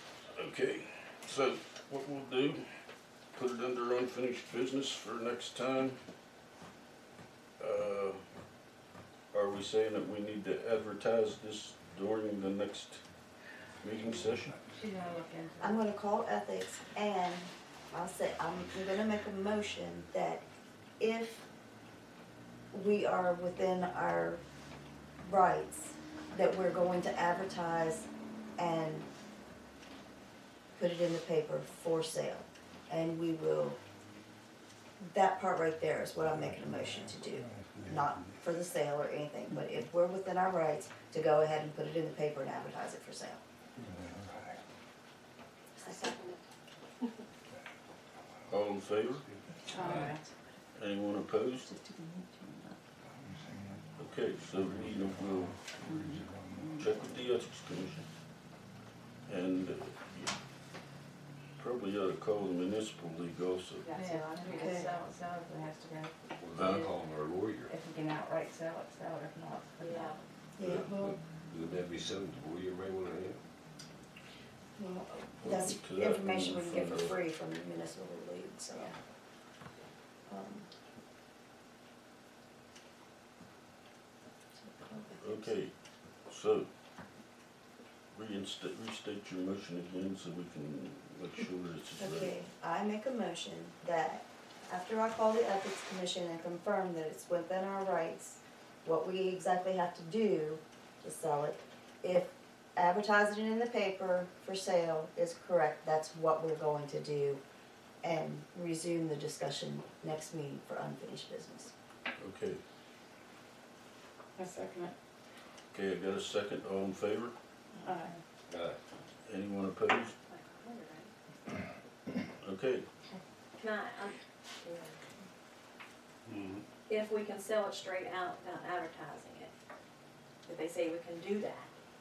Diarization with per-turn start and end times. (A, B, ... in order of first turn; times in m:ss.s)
0:00.4-0:02.7 A
0:03.3-0:06.0 A
0:07.6-0:08.2 A
0:09.3-0:13.0 A
0:13.8-0:14.6 A
0:14.6-0:15.8 B
0:15.6-0:20.4 C
0:21.0-0:21.4 C
0:22.7-0:24.4 C
0:25.2-0:29.1 C
0:30.8-0:33.8 C
0:35.0-0:43.4 C
0:45.8-0:46.4 D
0:45.8-0:46.1 C
0:48.5-0:49.2 A
0:49.7-0:50.3 B
0:49.8-0:50.1 E
0:50.7-0:51.7 A
0:51.7-0:52.8 B
0:54.0-0:55.6 A
0:56.8-0:58.1 A
0:59.2-1:00.3 A
1:01.6-1:04.0 A
1:03.8-1:06.1 B
1:03.9-1:05.1 D
1:04.5-1:04.8 C
1:06.4-1:07.7 E
1:06.6-1:06.9 A
1:07.7-1:10.2 B
1:09.8-1:10.2 D
1:10.6-1:11.2 C
1:10.6-1:13.4 E
1:14.8-1:19.0 C
1:15.4-1:17.2 A
1:20.3-1:20.7 C
1:24.6-1:25.5 C
1:25.2-1:25.7 A
1:26.3-1:26.7 A
1:28.1-1:32.3 A
1:32.0-1:47.4 C
1:48.0-1:51.7 C
1:52.2-1:52.6 A
1:54.4-1:54.9 B
1:55.7-1:57.3 A
1:57.8-1:58.2 B
1:58.5-1:58.8 E
1:59.3-2:00.1 A
2:00.3-2:01.1 D
2:02.4-2:02.9 A
2:03.6-2:05.0 D
2:06.3-2:06.6 E
2:06.9-2:09.5 D
2:10.5-2:11.7 D